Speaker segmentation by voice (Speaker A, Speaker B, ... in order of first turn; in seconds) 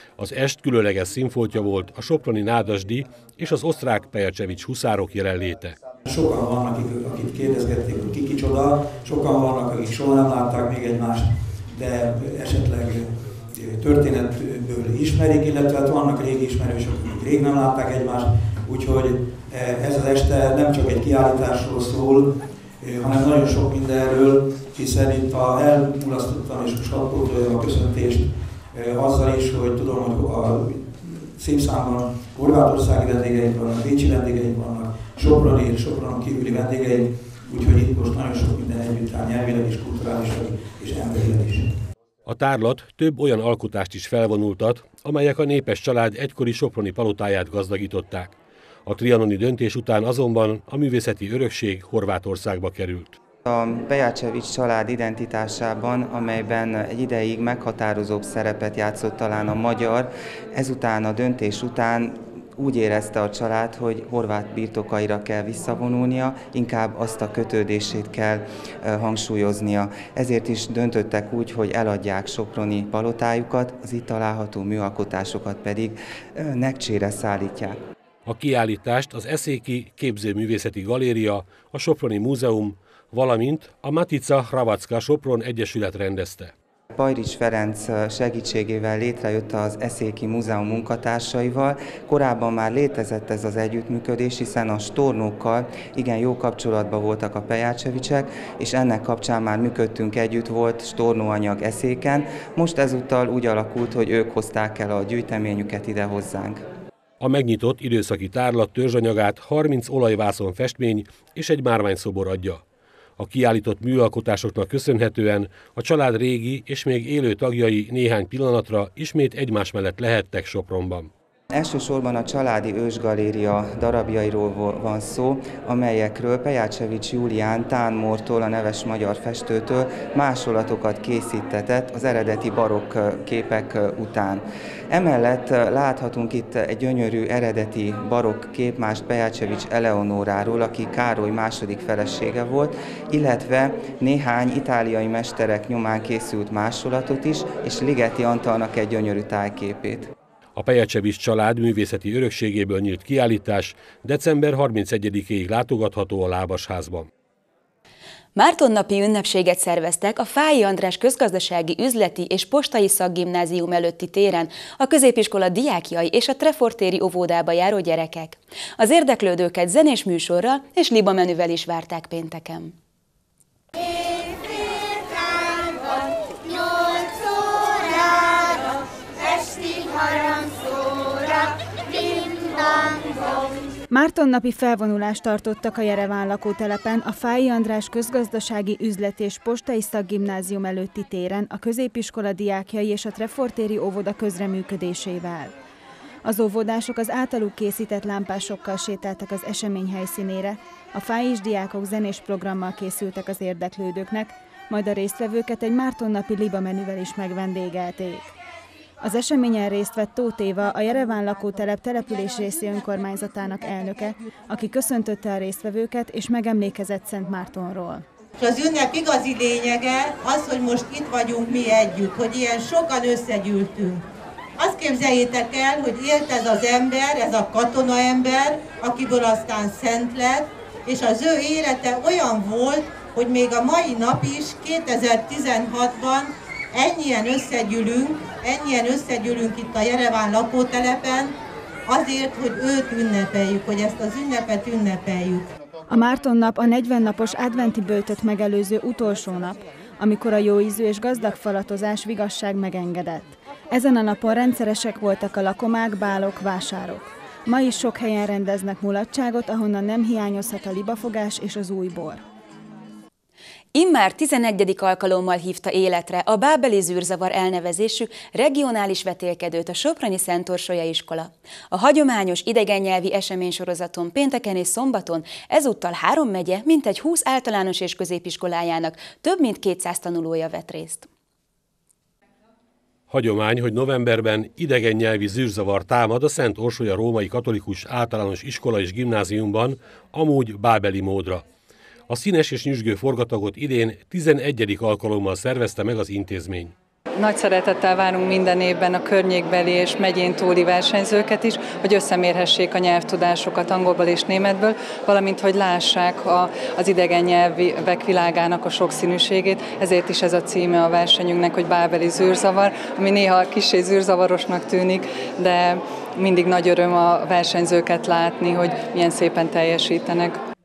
Speaker A: 0.2-5.8, 42.2-53.2, 78.3-86.5, 107.2-112.6, 113.2-121.1, 150.6-157.1, 283.1-291.4, 292.1-296.7
Speaker B: 6.0-41.8
Speaker C: 53.5-77.8, 86.9-106.6, 121.5-150.1
Speaker D: 158.4-172.7, 263.8-281.1
Speaker E: 183.9-195.5, 196.2-208.3, 209.0-218.0, 245.9-262.2
Speaker F: 218.4-224.0, 224.6-241.3, 241.9-245.5
Speaker G: 297.2-320.4